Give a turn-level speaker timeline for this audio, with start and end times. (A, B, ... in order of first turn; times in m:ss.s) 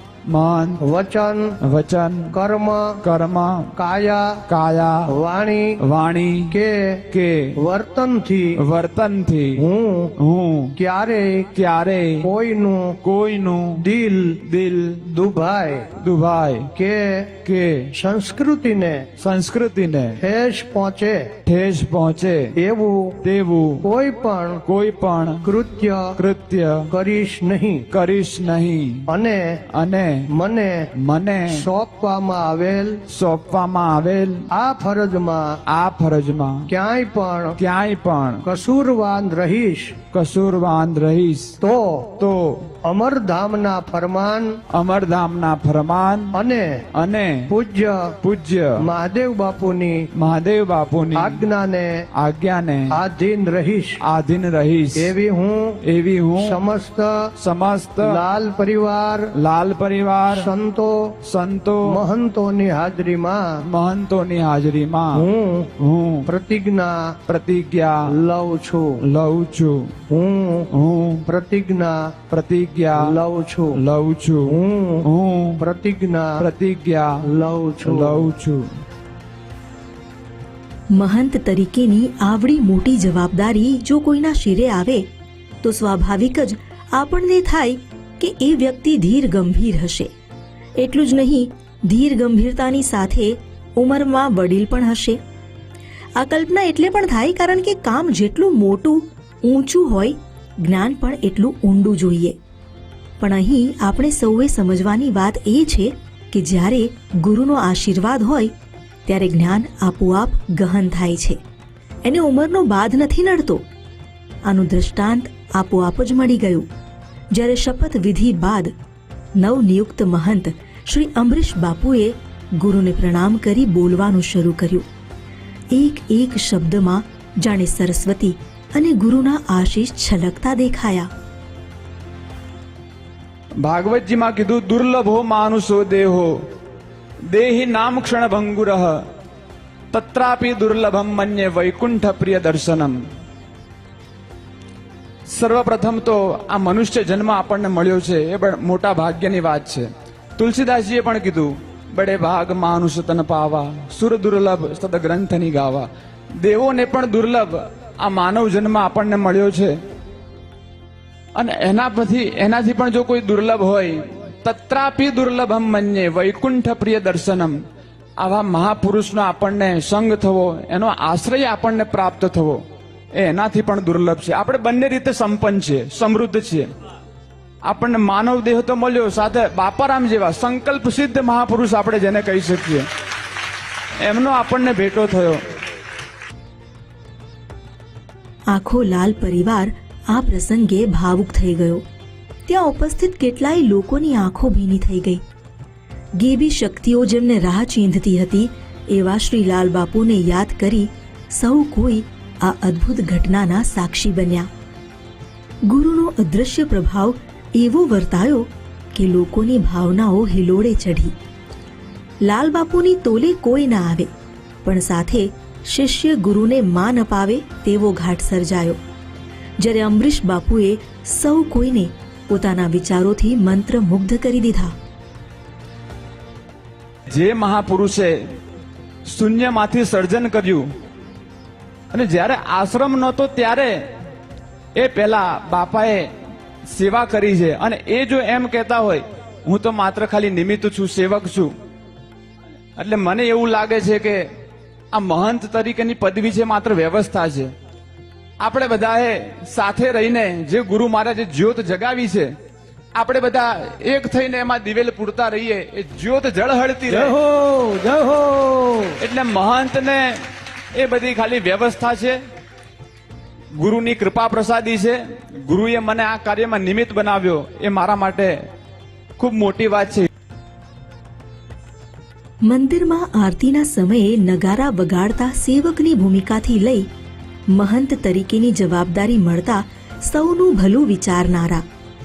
0:00.3-0:00.8 A
0:00.8-0:01.6 B
0:01.6-0:02.4 A
0:02.3-0:03.0 B
0:03.0-0:03.7 A
0:03.8-0:04.4 B
0:04.5-0:05.2 A
0:05.1-0:05.8 B
0:05.8-0:06.6 A
0:06.5-0:07.0 B
0:07.1-0:07.6 A
0:07.6-0:08.6 B
0:08.6-0:09.6 A
0:09.6-0:10.1 B
0:10.2-0:10.8 A
0:10.8-0:11.5 B
0:11.6-0:12.3 A
0:12.2-0:13.0 B
0:13.0-0:13.9 A
0:13.8-0:14.4 B
0:14.4-0:15.0 A
0:15.1-0:15.9 B
0:16.0-0:16.7 A
0:16.8-0:17.4 B
0:17.4-0:17.9 A
0:18.0-0:19.1 B
0:19.2-0:20.2 A
0:20.2-0:21.3 B
0:21.5-0:22.6 A
0:22.6-0:23.2 B
0:23.2-0:23.9 A
0:23.8-0:24.6 B
0:24.7-0:25.5 A
0:25.4-0:26.2 B
0:26.2-0:26.9 A
0:26.9-0:27.8 B
0:27.9-0:29.1 A
0:29.1-0:29.6 B
0:29.7-0:30.3 A
0:30.3-0:30.9 B
0:31.0-0:31.7 A
0:31.5-0:33.0 B
0:33.1-0:34.5 A
0:34.5-0:35.6 B
0:35.7-0:36.7 A
0:36.7-0:37.6 B
0:37.6-0:38.4 A
0:38.4-0:40.0 B
0:40.1-0:41.6 A
0:41.6-0:42.1 B
0:42.2-0:42.7 A
0:42.8-0:44.6 B
0:44.7-0:46.4 A
0:46.3-0:46.9 B
0:46.9-0:47.5 A
0:47.5-0:48.2 B
0:48.2-0:48.9 A
0:48.8-0:50.1 B
0:50.1-0:51.5 A
0:51.2-0:52.0 B
0:52.2-0:53.0 A
0:52.9-0:54.0 B
0:54.0-0:55.1 A
0:55.0-0:55.8 B
0:55.8-0:56.6 A
0:56.4-0:57.1 B
0:57.4-0:58.2 A
0:58.0-0:59.3 B
0:59.4-1:00.5 A
1:00.3-1:01.1 B
1:01.2-1:02.0 A
1:01.9-1:03.6 B
1:03.6-1:05.3 A
1:05.1-1:05.7 B
1:05.8-1:06.3 A
1:06.2-1:07.2 B
1:07.3-1:08.1 A
1:08.1-1:09.0 B
1:09.0-1:10.0 A
1:10.1-1:10.7 B
1:10.7-1:11.2 A
1:11.3-1:12.0 B
1:12.3-1:13.2 A
1:13.0-1:13.8 B
1:13.8-1:15.6 A
1:14.4-1:15.1 B
1:15.6-1:16.4 B
1:16.4-1:17.2 A
1:17.2-1:18.3 B
1:17.8-1:18.7 A
1:20.9-1:25.1 C
1:25.6-1:30.1 C
1:30.8-1:35.2 C
1:36.2-1:42.4 C
1:43.2-1:48.5 C
1:49.1-1:51.4 C
1:52.0-1:53.6 C
1:54.5-1:56.7 C
1:57.3-1:58.7 C
1:59.4-2:04.8 C
2:05.7-2:11.1 C
2:13.6-2:16.5 A
2:17.3-2:19.1 A
2:19.9-2:23.0 A
2:25.3-2:29.9 A
2:30.4-2:35.9 A
2:36.4-2:39.8 A
2:41.4-2:47.6 A
2:48.2-2:52.6 A
2:53.2-2:56.7 A
2:57.7-3:02.9 A
3:04.0-3:05.4 A
3:08.5-3:11.8 C
3:12.5-3:15.2 C
3:16.2-3:24.5 C
3:25.6-3:31.2 C
3:32.2-3:34.1 C
3:34.6-3:38.8 C
3:39.6-3:44.8 C
3:47.1-3:48.3 A
3:49.1-3:50.7 A
3:51.9-3:53.8 A
3:54.8-3:56.1 A
3:56.7-4:01.5 A
4:02.8-4:04.3 A
4:04.9-4:07.5 A
4:08.4-4:12.3 A
4:12.9-4:17.1 A
4:16.9-4:19.0 B
4:19.0-4:20.2 A
4:20.8-4:22.2 A
4:23.6-4:28.4 A
4:29.2-4:30.1 A
4:32.4-4:36.9 C
4:37.5-4:41.6 C